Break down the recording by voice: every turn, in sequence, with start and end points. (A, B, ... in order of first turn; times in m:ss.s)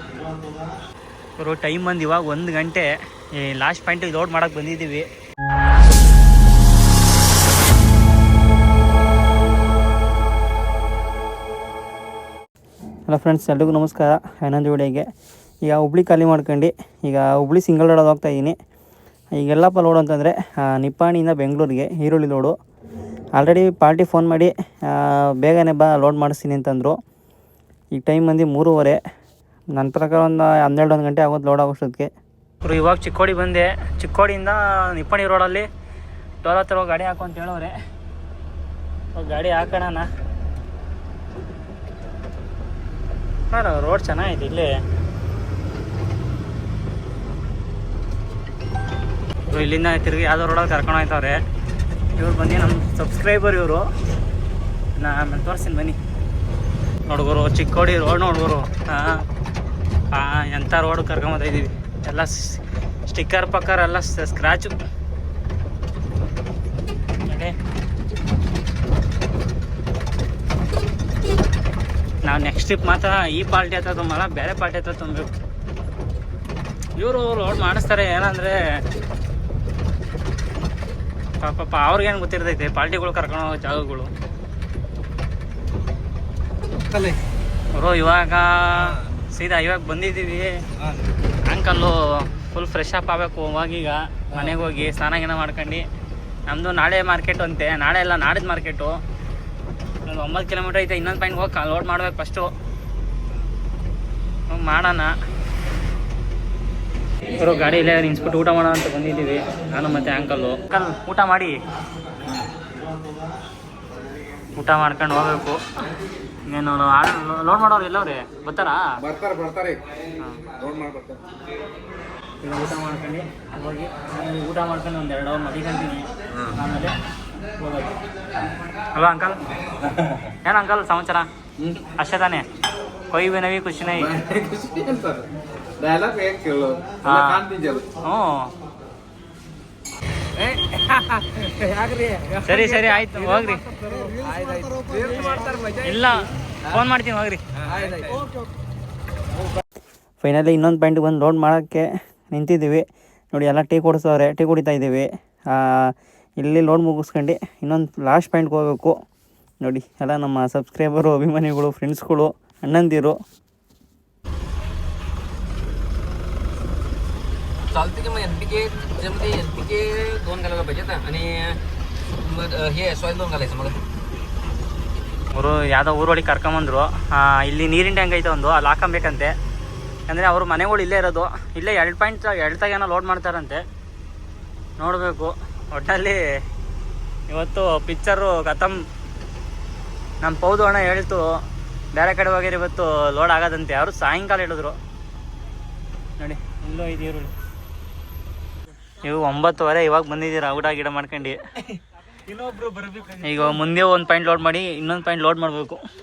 0:01.4-0:05.1 A
0:13.0-0:15.1 A
0:15.6-0:18.6 A
0:19.3-0:22.5 A
0:23.4-0:27.0 A
0:27.9-0:29.0 A
0:29.7-0:32.1 A
0:32.6-0:35.7 A
0:36.4-0:37.7 A
0:39.1-0:40.1 A
0:43.5-0:44.7 A
0:49.5-0:51.4 A
0:52.1-0:53.9 A
0:55.0-0:56.0 A
0:57.1-0:59.2 A
1:00.1-1:04.8 A
1:07.3-1:07.5 A
1:12.2-1:15.3 A
1:17.0-1:18.6 A
1:21.4-1:24.1 A
1:27.7-1:30.5 A
1:31.4-1:35.8 A
1:36.5-1:39.0 A
1:40.1-1:42.5 A
1:44.5-1:45.1 A
1:47.4-1:51.6 A
1:54.6-1:55.6 A
1:56.5-1:59.0 A
1:59.1-1:59.8 B
2:00.2-2:00.4 A
2:00.6-2:01.2 B
2:02.4-2:07.0 A
2:07.6-2:07.9 A
2:08.9-2:09.4 A
2:10.4-2:11.3 A
2:12.0-2:12.4 A
2:13.1-2:14.2 A
2:14.0-2:15.2 B
2:15.8-2:17.8 B
2:17.0-2:17.5 A
2:18.0-2:18.5 A
2:21.7-2:22.2 C
2:22.4-2:23.6 A
2:24.2-2:24.8 C
2:24.9-2:25.3 B
2:25.1-2:27.4 A
2:30.2-2:38.9 A
2:39.6-2:43.2 A
2:47.7-2:51.6 C
2:52.2-2:53.8 C
2:55.3-2:59.3 A
3:00.1-3:03.6 A
3:04.8-3:06.2 A
3:07.3-3:08.8 A
3:10.2-3:11.3 A
3:11.9-3:14.8 A
3:16.2-3:17.3 A
3:19.0-3:21.4 A
3:22.6-3:25.8 A